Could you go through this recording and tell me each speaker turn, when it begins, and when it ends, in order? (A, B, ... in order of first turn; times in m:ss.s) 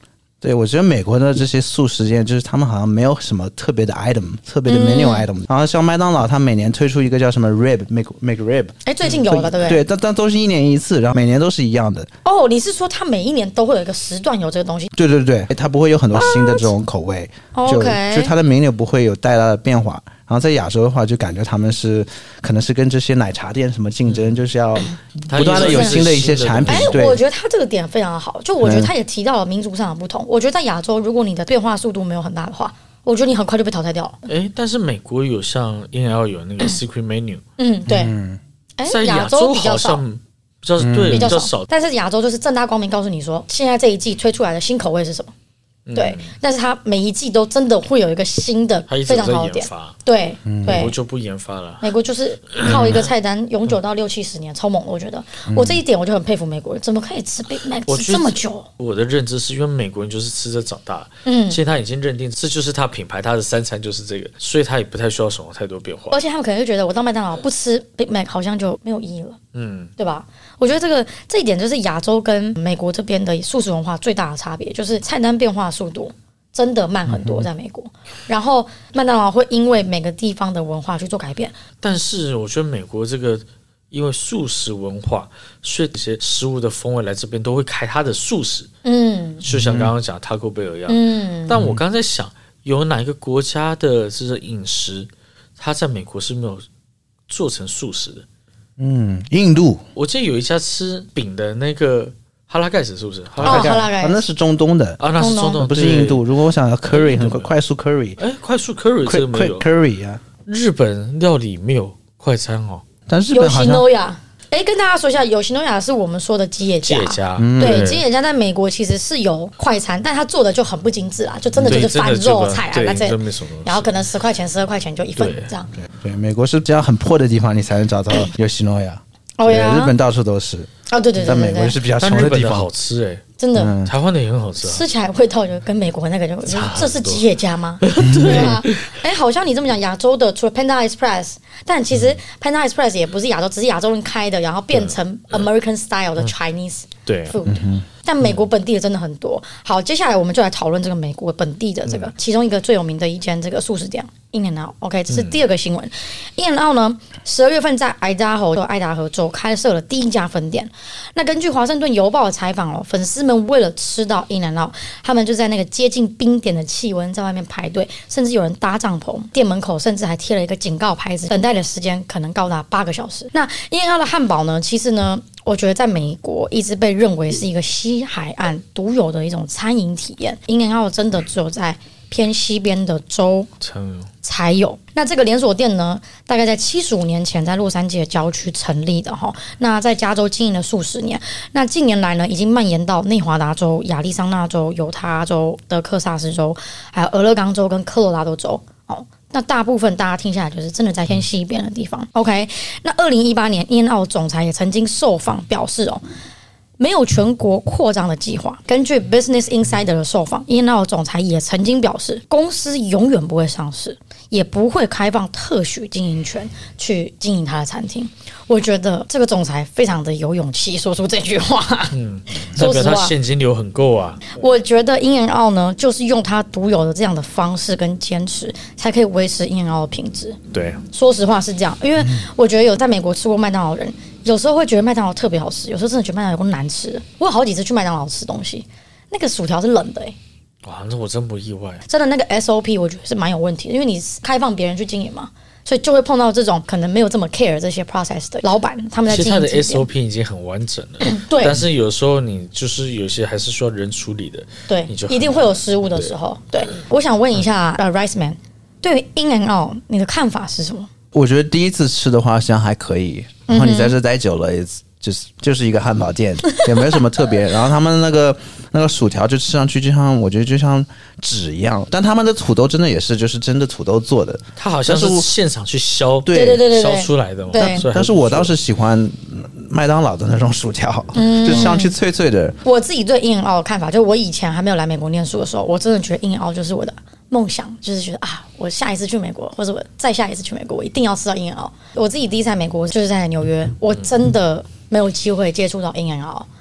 0:00.4-0:12.1 A
0:04.7-0:05.3 B
0:08.8-0:09.8 B
0:12.2-0:14.9 B
0:14.9-0:27.2 A
0:16.1-0:16.7 B
0:17.5-0:18.3 B
0:24.1-0:24.4 C
0:25.3-0:27.0 C
0:25.4-0:26.0 B
0:26.7-0:34.2 B
0:28.6-0:28.9 A
0:34.3-0:37.4 C
0:37.6-0:38.1 B
0:37.9-0:38.4 A
0:38.8-0:40.0 B
0:38.9-0:41.7 C
0:40.8-0:41.4 A
0:41.1-0:45.3 B
0:45.9-0:46.3 C
0:46.0-0:51.0 B
0:48.9-0:50.0 C
0:50.5-0:50.9 A
0:50.6-0:51.9 C
0:51.8-0:58.7 B
0:52.6-0:53.0 C
0:52.7-0:52.9 A
0:55.5-0:55.8 A
0:57.9-1:06.2 C
1:01.2-1:01.6 B
1:06.1-1:09.4 B
1:09.5-1:09.9 C
1:10.0-1:21.6 B
1:17.1-1:17.5 A
1:21.8-1:28.7 C
1:28.8-1:29.4 B
1:29.4-1:36.6 C
1:29.5-1:29.9 A
1:30.9-1:31.6 B
1:31.5-1:31.8 A
1:37.3-1:38.2 C
1:38.8-1:39.8 A
1:40.0-1:43.8 C
1:43.4-1:45.0 A
1:43.4-1:44.2 B
1:45.0-1:46.2 C
1:45.2-1:45.6 B
1:45.6-1:48.2 A
1:46.9-1:47.5 C
1:48.2-1:49.7 C
1:49.0-1:50.2 A
1:50.5-1:52.8 C
1:53.1-1:53.9 A
1:53.3-2:05.7 B
1:56.8-1:58.0 C
1:57.4-1:58.0 A
2:01.5-2:01.9 A
2:01.6-2:03.9 C
2:05.2-2:05.5 C
2:05.8-2:12.7 A
2:09.4-2:10.0 B
2:10.9-2:11.8 B
2:12.0-2:13.2 C
2:13.4-2:13.7 B
2:13.6-2:13.9 A
2:13.8-2:14.8 C
2:14.6-3:03.5 B
2:16.5-2:17.2 C
2:17.8-2:18.9 C
2:18.0-2:18.6 A
2:27.1-2:27.4 C
2:27.5-2:27.8 A
2:35.1-2:35.4 C
3:03.6-3:04.1 C
3:04.2-3:26.0 B
3:26.8-3:43.1 B
3:41.9-3:44.2 C
3:44.3-3:50.4 B
3:50.5-3:50.8 C
3:50.9-4:00.2 B
4:00.6-4:01.8 C
4:01.9-4:09.9 B
4:09.1-4:16.1 C
4:11.0-4:11.6 B
4:14.7-4:20.9 B
4:21.1-4:35.3 A
4:23.5-4:24.0 B
4:34.6-4:38.5 C
4:36.2-4:36.7 A
4:36.3-4:37.9 B
4:37.6-4:42.6 A
4:41.2-4:42.0 B
4:42.6-4:56.5 B